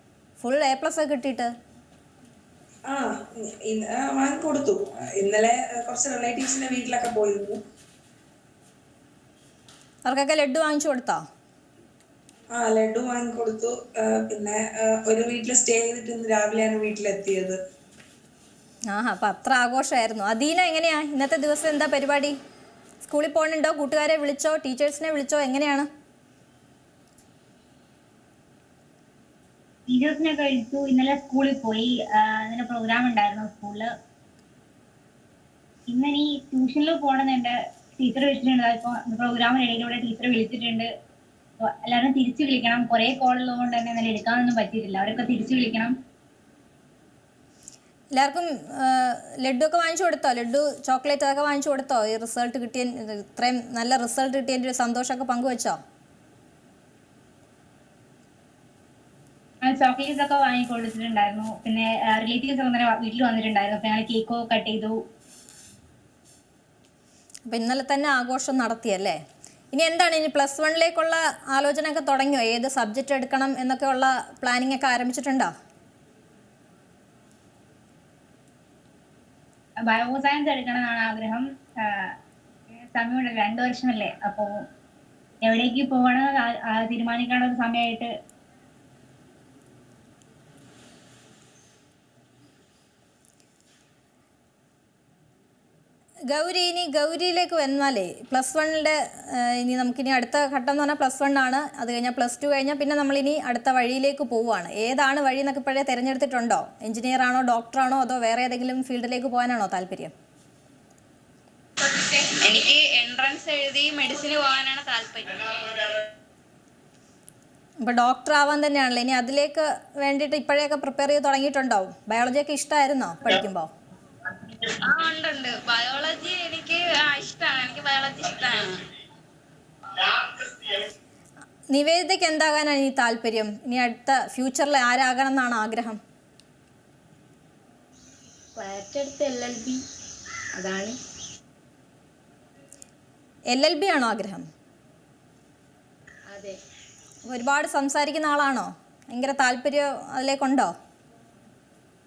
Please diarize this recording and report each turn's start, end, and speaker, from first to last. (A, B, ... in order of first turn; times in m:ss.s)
0:00.4-0:01.5 A
0:02.9-0:07.6 B
0:10.0-0:11.2 A
0:12.5-0:17.6 B
0:18.9-0:22.4 A
0:23.0-0:25.9 A
0:29.9-0:33.9 C
0:35.9-0:40.9 C
0:41.6-0:45.9 C
0:48.1-0:55.8 A
0:59.6-1:05.0 C
1:07.5-1:09.2 A
1:09.7-1:15.5 A
1:19.8-1:22.1 C
1:22.9-1:24.7 C
1:25.4-1:28.1 C
1:36.3-1:50.1 A
1:51.8-1:56.0 D
1:57.8-2:03.7 A
2:04.6-2:08.8 D
2:11.7-2:16.0 A
2:18.5-2:19.8 E
2:20.5-2:21.0 E
2:23.5-2:24.5 A
2:26.3-2:26.6 E
2:27.3-2:30.7 A